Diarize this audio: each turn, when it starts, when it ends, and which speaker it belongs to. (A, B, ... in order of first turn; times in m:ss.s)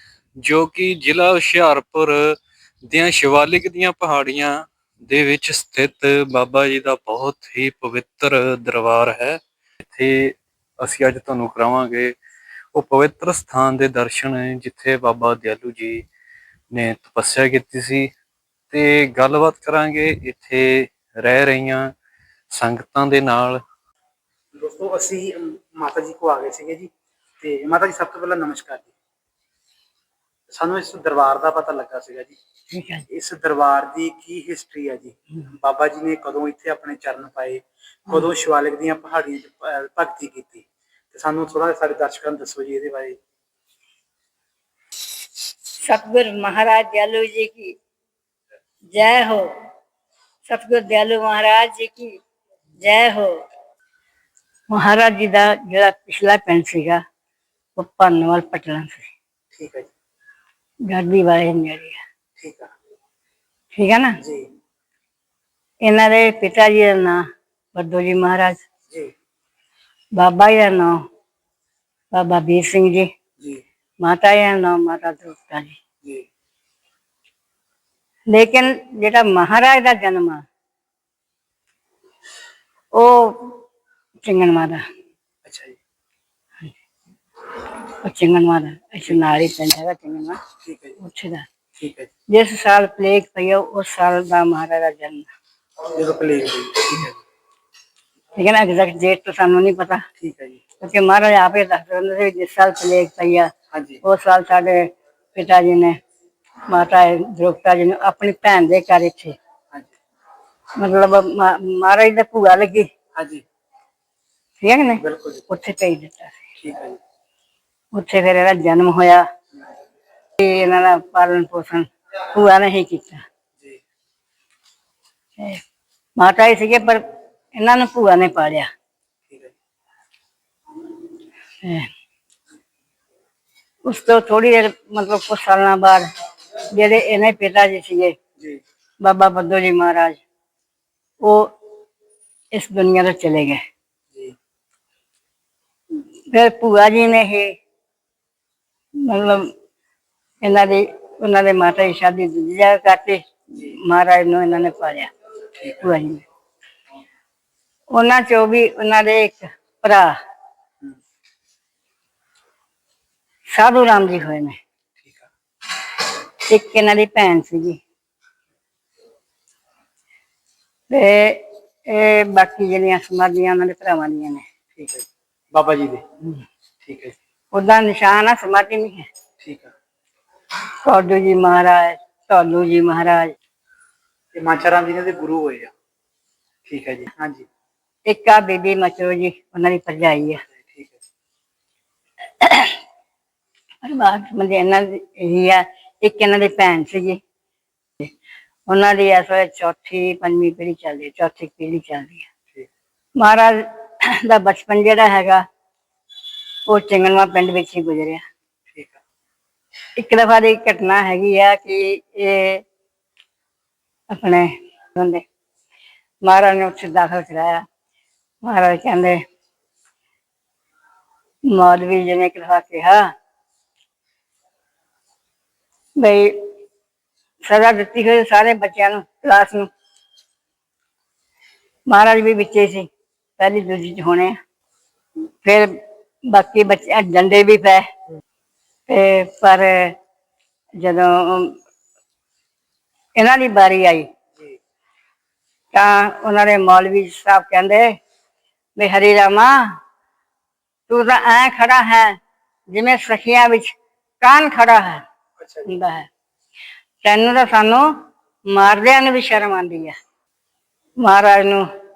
0:00.4-0:12.2 A
0:12.7-0:16.0 A
0:16.7-0:18.1 A
0:18.7-0:21.9 A
0:22.5-0:23.6 A
0:24.5-0:28.9 B
0:30.5-0:32.4 B
0:32.7-0:33.0 C
0:33.1-0:43.2 B
0:45.8-0:47.8 C
0:48.9-0:49.5 C
0:50.4-0:52.2 C
0:52.8-0:53.4 C
0:54.7-0:57.0 C
0:57.8-0:59.1 C
0:59.5-0:59.9 B
1:00.9-1:02.0 C
1:02.4-1:02.7 B
1:03.7-1:04.2 C
1:04.2-1:04.5 B
1:05.8-1:08.6 C
1:10.1-1:11.0 C
1:12.1-1:13.1 C
1:14.0-1:15.8 C
1:18.3-1:20.4 C
1:22.9-1:23.6 C
1:24.2-1:24.8 C
1:25.4-1:25.8 B
1:28.0-1:30.4 C
1:30.6-1:31.0 B
1:31.0-1:31.4 C
1:31.8-1:32.1 B
1:32.3-1:35.3 C
1:35.8-1:37.2 B
1:38.3-1:40.0 C
1:40.2-1:40.6 B
1:40.8-1:43.5 C
1:43.7-1:44.0 B
1:44.0-1:46.0 C
1:46.7-1:49.3 C
1:50.8-1:52.9 C
1:53.1-1:53.4 B
1:54.6-1:56.4 C
1:55.0-1:55.4 B
1:56.6-1:57.0 B
1:57.9-1:59.2 C
2:00.4-2:03.2 C
2:06.2-2:07.0 C
2:07.6-2:08.7 C
2:09.3-2:09.5 B
2:11.6-2:11.9 C
2:13.8-2:16.1 C
2:16.7-2:18.2 C
2:19.0-2:20.2 C
2:21.2-2:21.5 C
2:22.5-2:23.6 C
2:26.3-2:27.6 C
2:29.0-2:29.5 C
2:30.4-2:35.1 C
2:35.7-2:36.2 C
2:37.9-2:40.2 C
2:43.5-2:44.6 C
2:45.0-2:45.3 B
2:46.4-2:47.8 C
2:50.9-2:54.4 C
2:54.7-2:56.0 B
2:56.8-2:57.2 B
2:57.5-2:59.1 C
2:59.4-2:59.7 B
3:00.8-3:03.3 C
3:04.3-3:05.7 B
3:06.6-3:07.4 B
3:08.0-3:10.4 C
3:10.6-3:10.9 B
3:12.4-3:12.8 C
3:13.8-3:17.2 C
3:18.7-3:22.3 C
3:23.2-3:25.4 C
3:26.7-3:28.2 C
3:30.0-3:32.6 C
3:34.1-3:35.2 C
3:36.2-3:37.6 C
3:38.4-3:39.2 C
3:41.5-3:43.1 C
3:46.0-3:46.4 C
3:47.4-3:49.7 C
3:51.9-3:54.4 C
3:55.4-3:57.9 C
3:58.9-4:00.0 C
4:00.8-4:01.6 C
4:03.1-4:04.1 C
4:05.7-4:08.0 C
4:08.8-4:09.8 C
4:10.9-4:12.2 C
4:12.7-4:15.0 C
4:15.4-4:15.7 B
4:15.6-4:16.1 C
4:17.0-4:17.9 C
4:18.5-4:20.0 C
4:21.0-4:21.6 C